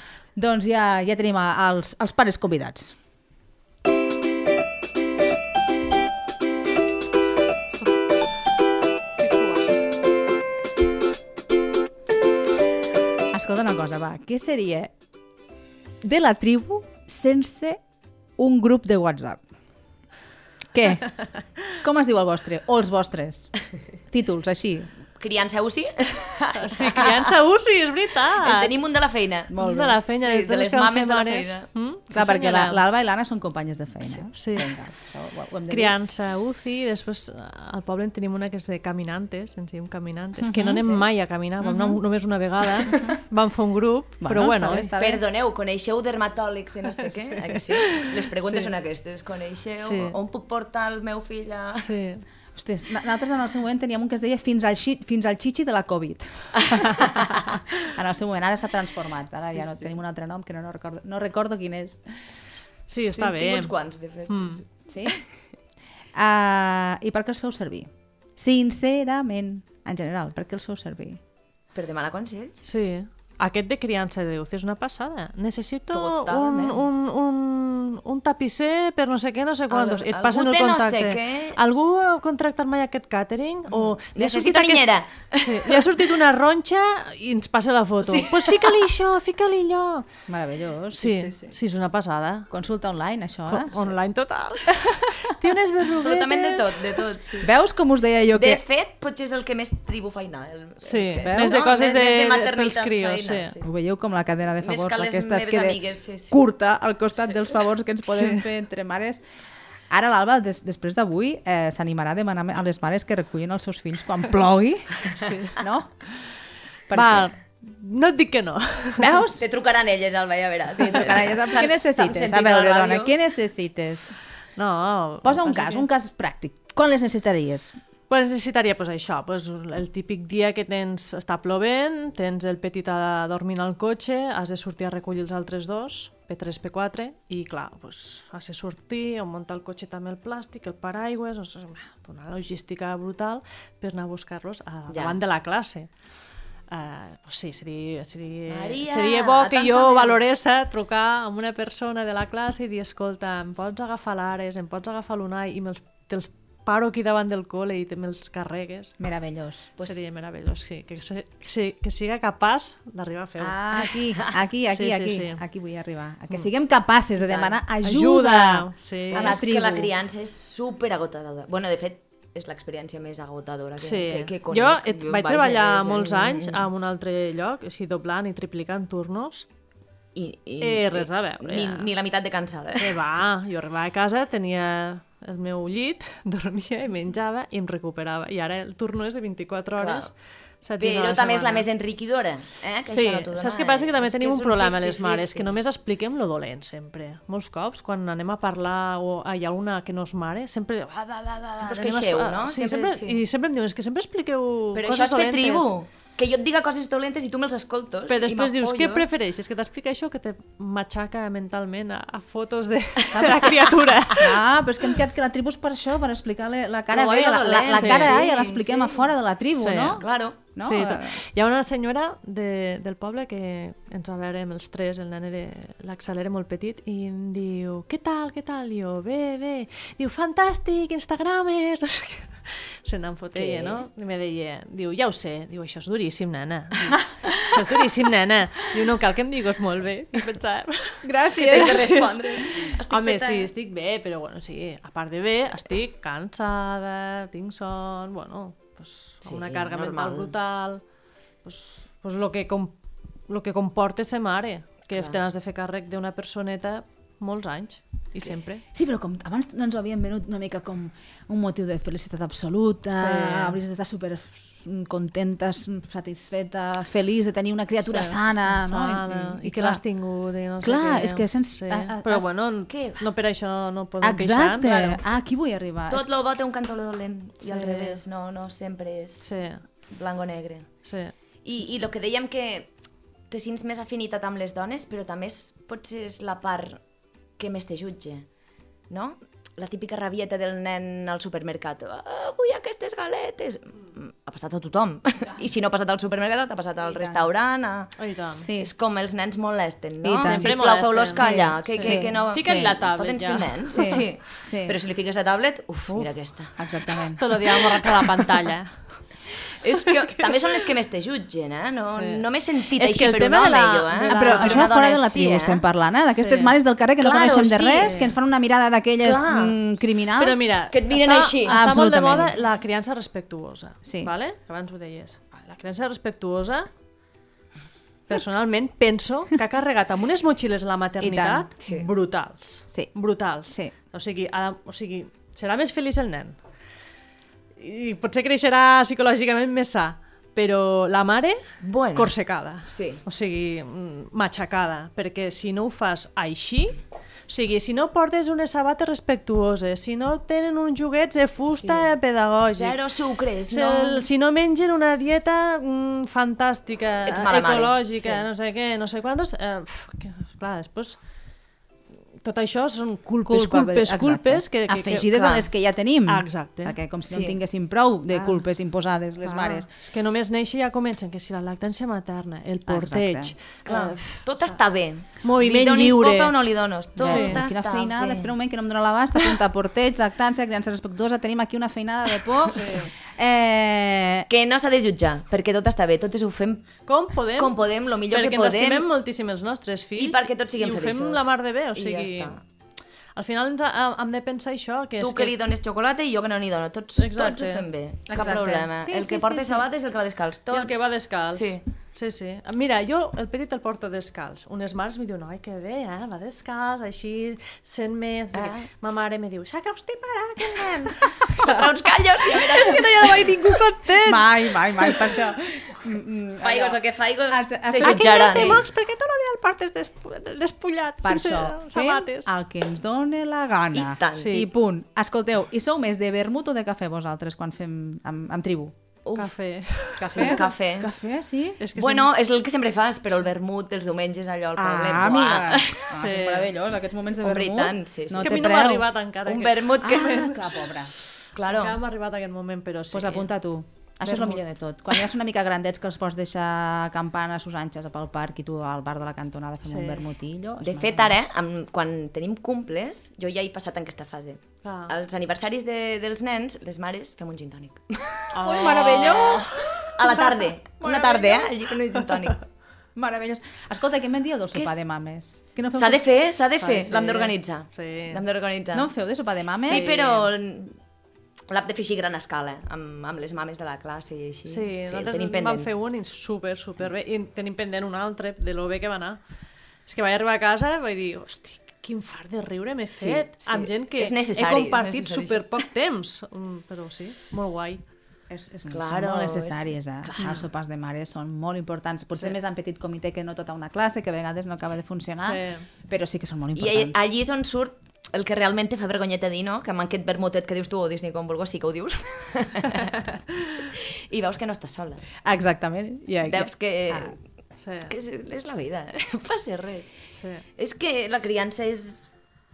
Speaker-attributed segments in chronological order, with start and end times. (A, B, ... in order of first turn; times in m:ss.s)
0:00.4-0:03.0 A
0:09.2-0:09.6 B
0:13.3-0:14.9 A
0:16.0-0:17.8 A
0:18.4-0:19.4 A
0:20.7-0:21.1 A
0:21.7-0:23.5 A
0:24.1-0:24.9 A
0:25.2-0:27.3 C
0:26.6-0:28.7 B
0:28.4-0:31.7 C
0:29.5-0:30.0 A
0:29.6-0:32.8 B
0:32.1-0:36.0 A
0:34.3-0:34.7 B
0:35.7-0:44.9 B
0:40.4-0:40.9 A
0:41.6-0:42.0 A
0:44.2-0:45.2 A
0:45.0-0:51.9 C
0:47.5-0:48.7 B
0:49.8-0:50.2 B
0:51.8-0:52.2 B
0:52.6-1:02.0 A
0:59.6-0:59.9 B
1:02.9-1:03.7 B
1:03.0-1:05.2 C
1:04.3-1:04.6 B
1:04.9-1:05.2 A
1:06.2-1:11.2 A
1:11.8-1:12.7 C
1:12.6-1:30.1 B
1:15.9-1:16.9 C
1:19.7-1:21.6 C
1:24.1-1:26.1 C
1:28.0-1:28.8 C
1:30.3-1:31.3 A
1:31.0-1:32.5 B
1:32.5-1:34.0 A
1:33.5-1:37.2 B
1:34.8-1:35.3 A
1:36.0-1:37.5 C
1:37.4-1:38.6 A
1:38.3-1:43.6 C
1:40.8-1:43.5 B
1:41.2-1:41.7 A
1:43.6-1:49.2 A
1:44.6-1:46.4 C
1:48.1-1:48.4 B
1:49.9-1:56.0 A
1:55.1-1:55.6 B
1:56.9-1:57.3 A
1:56.9-1:59.2 B
1:59.0-1:59.4 A
1:59.4-2:03.2 C
2:00.8-2:04.2 A
2:04.6-2:05.9 B
2:05.2-2:07.8 A
2:08.1-2:25.9 B
2:24.9-2:25.2 C
2:26.7-2:39.0 B
2:28.5-2:30.2 C
2:39.0-2:40.0 A
2:39.8-2:43.6 B
2:43.4-2:49.9 A
2:44.7-2:45.4 B
2:47.2-2:47.6 C
2:47.8-2:49.4 B
2:49.1-2:56.7 C
2:53.8-2:59.5 B
3:00.2-3:03.0 C
3:00.6-3:01.9 B
3:02.8-3:11.7 B
3:09.8-3:10.1 C
3:10.8-3:15.6 C
3:12.9-3:25.7 B
3:21.6-3:23.2 C
3:24.7-3:29.1 C
3:28.1-3:34.4 B
3:33.2-3:33.6 A
3:33.2-3:33.5 C
3:34.1-3:41.2 A
3:36.9-3:39.0 C
3:37.7-3:38.2 B
3:39.6-4:10.8 B
3:40.0-3:40.4 C
3:53.4-3:53.9 C
4:01.0-4:02.2 A
4:01.3-4:03.5 C
4:09.2-4:10.3 C
4:11.4-4:12.8 B
4:13.3-4:18.6 B
4:14.9-4:15.2 C
4:18.7-4:29.8 A
4:22.9-4:23.6 B
4:27.8-4:35.0 B
4:30.6-4:32.3 A
4:32.7-4:33.0 C
4:34.0-4:36.1 A
4:35.9-4:39.4 C
4:37.4-4:38.0 B
4:39.2-4:39.6 B
4:39.9-4:40.7 C
4:40.8-4:41.1 B
4:41.4-4:42.7 C
4:43.3-4:46.8 C
4:47.4-4:48.3 C
4:48.9-4:58.0 C
4:56.9-4:57.2 A
4:58.0-4:58.5 B
4:58.4-4:58.7 A
4:58.6-5:06.6 C
5:00.0-5:00.6 A
5:00.2-5:04.0 B
5:01.1-5:02.7 A
5:03.7-5:04.8 A
5:06.6-5:07.4 A
5:07.2-5:08.7 B
5:09.5-5:15.6 C
5:09.9-5:10.6 B
5:11.9-5:14.7 B
5:14.1-5:20.6 A
5:16.2-5:16.6 B
5:17.0-5:17.9 C
5:17.8-5:18.2 B
5:19.0-5:19.6 C
5:20.2-5:26.7 B
5:20.7-5:21.7 C
5:21.5-5:22.4 A
5:23.8-5:24.1 A
5:28.1-5:36.4 B
5:31.0-5:31.5 A
5:31.6-5:31.9 C
5:33.5-5:33.7 A
5:37.6-5:41.4 B
5:41.6-5:42.2 C
5:42.0-5:52.9 B
5:42.7-5:43.0 C
5:51.5-5:51.9 C
5:52.5-5:54.1 C
5:53.4-6:01.0 B
5:57.1-5:58.2 C
6:02.2-6:05.4 B
6:03.2-6:09.7 A
6:06.1-6:06.8 B
6:07.1-6:07.4 C
6:08.1-6:08.5 B
6:09.2-6:14.6 B
6:12.7-6:13.3 A
6:13.6-6:18.3 C
6:15.2-6:16.4 B
6:17.0-6:24.3 A
6:17.0-6:17.4 B
6:22.5-6:22.9 B
6:24.3-6:26.7 C
6:26.9-6:32.4 B
6:27.4-6:28.9 C
6:30.0-6:32.4 C
6:33.2-6:35.3 B
6:35.0-6:41.6 C
6:37.0-6:38.3 B
6:38.1-6:39.6 A
6:40.5-6:51.7 B
6:48.3-6:48.7 C
6:51.3-6:53.4 C
6:52.3-6:55.2 B
6:53.9-6:58.7 A
6:56.4-6:58.6 C
6:57.8-7:02.3 B
7:01.0-7:08.8 A
7:03.7-7:04.4 C
7:04.2-7:04.5 B
7:09.0-7:09.3 C
7:09.2-7:10.4 B
7:10.0-7:11.6 A
7:10.1-7:10.9 C
7:11.6-7:12.1 B
7:11.8-7:16.0 C
7:14.6-7:18.9 A
7:15.9-7:16.5 B
7:17.2-7:18.5 C
7:18.2-7:20.4 B
7:19.2-7:20.4 C
7:19.8-7:20.9 A
7:21.3-7:21.8 C
7:21.4-7:23.3 B
7:22.9-7:31.3 A
7:24.0-7:24.4 B
7:29.6-7:30.1 B
7:30.6-7:42.4 C
7:34.6-7:34.9 B
7:38.3-7:40.1 B
7:38.4-7:40.2 A
7:40.8-7:41.5 A
7:43.0-7:46.0 A
7:44.5-7:44.8 C
7:45.8-7:48.9 C
7:46.6-7:48.2 B
7:48.7-7:50.0 A
7:49.6-7:50.8 C
7:49.6-7:50.3 B
7:51.5-7:55.7 C
7:54.5-7:59.2 B
7:59.9-8:07.8 B
8:03.0-8:05.6 C
8:08.3-8:17.0 A
8:08.7-8:10.4 C
8:15.2-8:15.7 B
8:16.6-8:23.1 C
8:23.7-8:25.1 C
8:25.2-8:27.1 A
8:26.2-8:27.2 C
8:27.6-8:27.9 B
8:27.9-8:29.9 C
8:30.1-8:30.4 B
8:30.6-8:32.1 C